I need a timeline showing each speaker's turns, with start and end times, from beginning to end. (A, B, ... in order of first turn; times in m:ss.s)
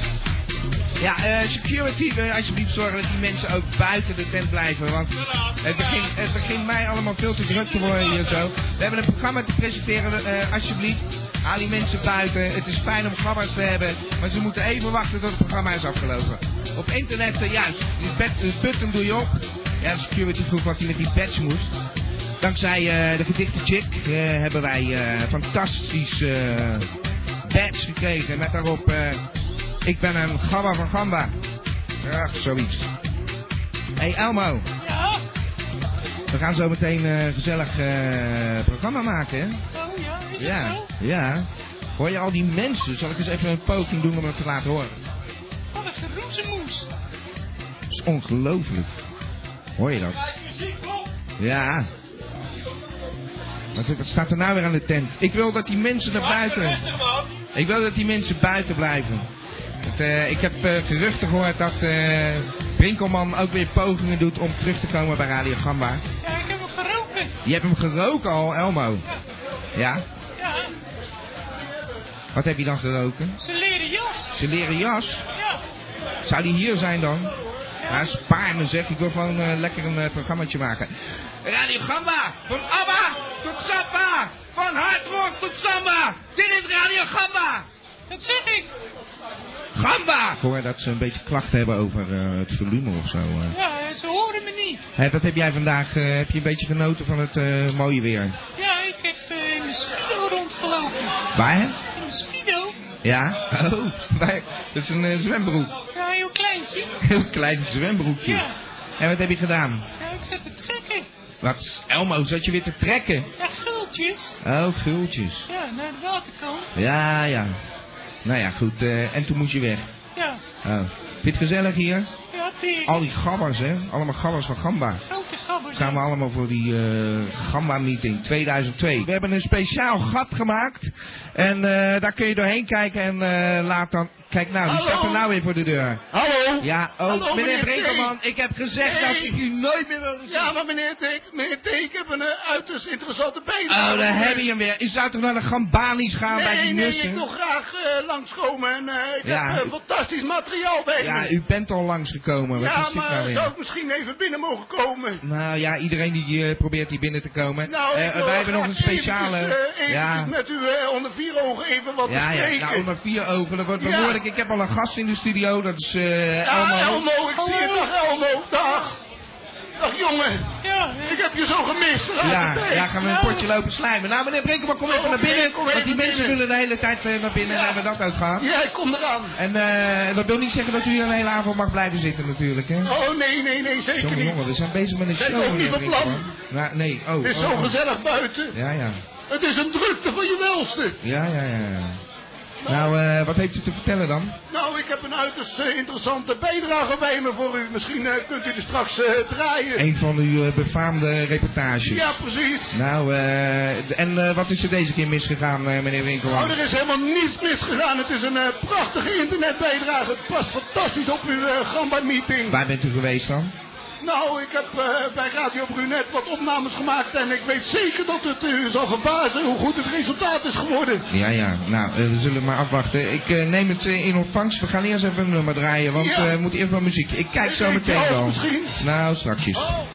0:01.0-0:21.7 A
0:22.4-0:26.9 A
0:27.4-0:29.2 A
0:29.8-0:31.3 A
0:32.0-0:32.9 A
0:34.0-0:34.6 A
0:34.8-0:35.2 B
0:36.3-0:39.6 A
0:39.7-0:40.9 B
0:40.4-0:45.0 A
0:45.7-0:46.9 B
0:47.9-0:48.9 A
0:49.8-0:50.2 A
0:51.4-0:51.9 A
0:53.7-0:56.8 A
0:57.5-0:59.3 A
0:59.8-1:06.0 A
1:06.2-1:07.3 B
1:07.4-1:09.0 A
1:09.8-1:10.0 A
1:10.4-1:10.7 B
1:12.3-1:13.4 A
1:13.4-1:14.3 B
1:14.3-1:15.2 A
1:15.3-1:15.6 B
1:16.2-1:17.3 A
1:17.9-1:20.9 A
1:21.4-1:27.7 A
1:28.1-1:28.7 B
1:29.7-1:33.6 A
1:33.5-1:34.8 B
1:35.0-1:38.4 A
1:38.6-1:41.2 B
1:41.3-1:41.8 A
1:41.9-1:42.8 B
1:43.0-1:45.7 A
1:45.7-1:47.0 B
1:47.0-1:48.4 A
1:48.2-1:48.6 B
1:49.0-1:49.9 A
1:50.0-1:51.1 B
1:51.4-1:53.3 A
1:53.4-1:54.4 B
1:54.4-1:55.5 A
1:55.5-1:56.8 B
1:56.7-1:57.6 A
1:58.2-1:59.9 A
2:00.1-2:00.4 B
2:00.6-2:02.1 A
2:02.3-2:03.0 B
2:02.8-2:05.0 A
2:05.1-2:06.0 B
2:05.7-2:16.0 A
2:14.6-2:15.3 C
2:16.1-2:18.1 C
2:16.6-2:20.6 A
2:18.8-2:19.4 C
2:20.2-2:24.5 C
2:23.7-2:27.2 A
2:26.3-2:31.3 C
2:29.2-2:29.7 A
2:31.0-2:33.5 A
2:32.5-2:35.2 C
2:35.2-2:40.3 A
2:37.6-2:42.9 C
2:42.0-2:47.1 A
2:43.8-2:44.2 C
2:46.4-2:49.0 C
2:47.4-2:48.0 B
2:48.5-2:48.8 B
2:49.8-2:50.5 C
2:50.6-2:51.3 B
2:51.0-2:53.0 C
2:52.2-2:58.4 A
2:52.9-2:53.5 B
2:54.9-2:56.4 C
2:57.4-2:57.8 C
2:58.4-2:59.4 C
2:59.4-3:02.9 A
3:02.8-3:04.5 C
3:04.0-3:07.8 A
3:05.1-3:06.3 C
3:07.2-3:08.5 C
3:08.5-3:09.0 A
3:09.3-3:11.0 C
3:11.0-3:12.0 A
3:12.6-3:12.9 C
3:12.7-3:14.3 A
3:14.5-3:19.8 C
3:19.8-3:22.1 A
3:21.8-3:22.8 C
3:22.7-3:26.6 A
3:26.3-3:32.6 C
3:32.5-3:33.5 A
3:34.0-3:41.0 C
3:41.1-3:49.7 A
3:45.9-3:46.4 C
3:47.4-3:48.8 C